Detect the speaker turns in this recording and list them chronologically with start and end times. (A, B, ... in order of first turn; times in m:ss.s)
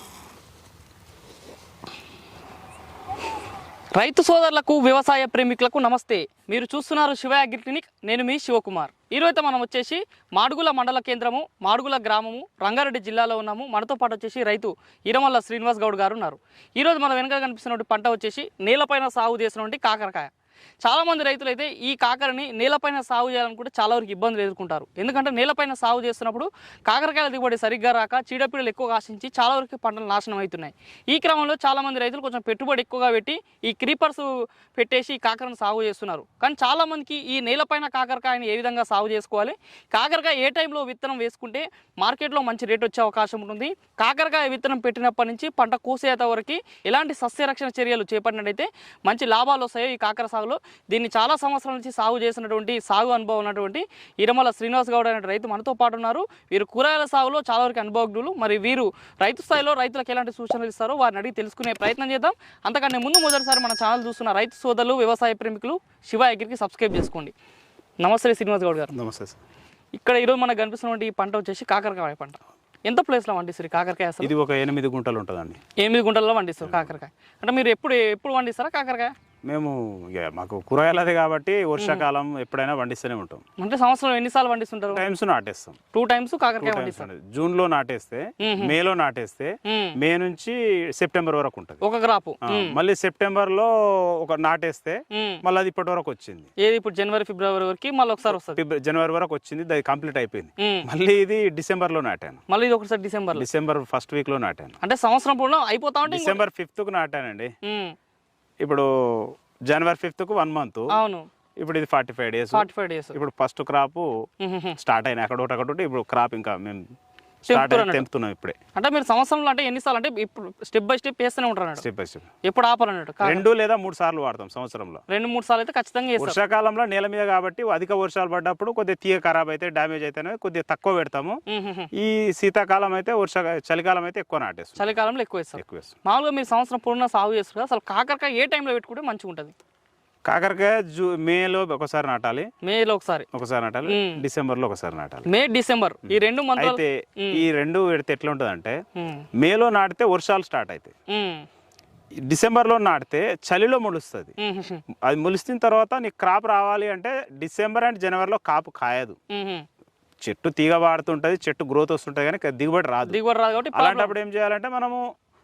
0:04.0-0:20.3 A
0:20.8-1:07.3 A
1:08.0-1:08.9 A
1:08.9-1:09.4 B
1:10.0-1:14.3 A
1:14.2-1:15.6 B
1:15.8-1:19.1 A
1:16.6-1:16.9 B
1:19.5-1:23.4 B
1:21.8-1:22.0 A
1:23.6-1:25.0 A
1:24.9-1:25.8 B
1:25.9-1:27.1 A
1:26.6-1:31.8 B
1:28.4-1:28.8 A
1:29.6-1:30.0 A
1:31.8-1:32.8 A
1:32.5-1:36.5 B
1:35.1-1:35.4 A
1:36.6-1:38.6 A
1:38.3-1:42.4 B
1:40.6-1:40.9 A
1:42.5-1:43.4 A
1:43.4-1:44.8 B
1:44.8-1:46.4 A
1:46.1-1:47.5 B
1:47.6-1:48.0 A
1:48.6-1:51.0 B
1:50.9-1:51.3 A
1:51.6-1:54.1 B
1:52.5-1:53.2 A
1:54.4-1:54.8 A
1:54.8-1:56.8 B
1:57.5-1:58.0 A
1:57.5-1:58.6 B
1:58.8-2:01.8 A
2:01.8-2:02.3 B
2:02.4-2:03.5 A
2:03.2-2:05.0 B
2:05.1-2:06.4 A
2:06.2-2:11.4 B
2:11.5-2:11.9 A
2:11.9-2:14.9 B
2:14.8-2:19.5 A
2:15.6-2:16.0 B
2:20.3-2:22.5 B
2:22.6-2:23.3 A
2:23.3-2:25.3 B
2:23.9-2:24.2 A
2:25.3-2:27.4 A
2:26.1-2:28.8 B
2:29.0-2:29.3 A
2:29.4-2:30.9 B
2:31.1-2:31.5 A
2:32.3-2:34.3 B
2:34.4-2:34.8 A
2:35.1-2:39.2 B
2:39.3-2:39.6 A
2:40.2-2:43.2 B
2:43.1-2:44.2 A
2:43.7-2:45.0 B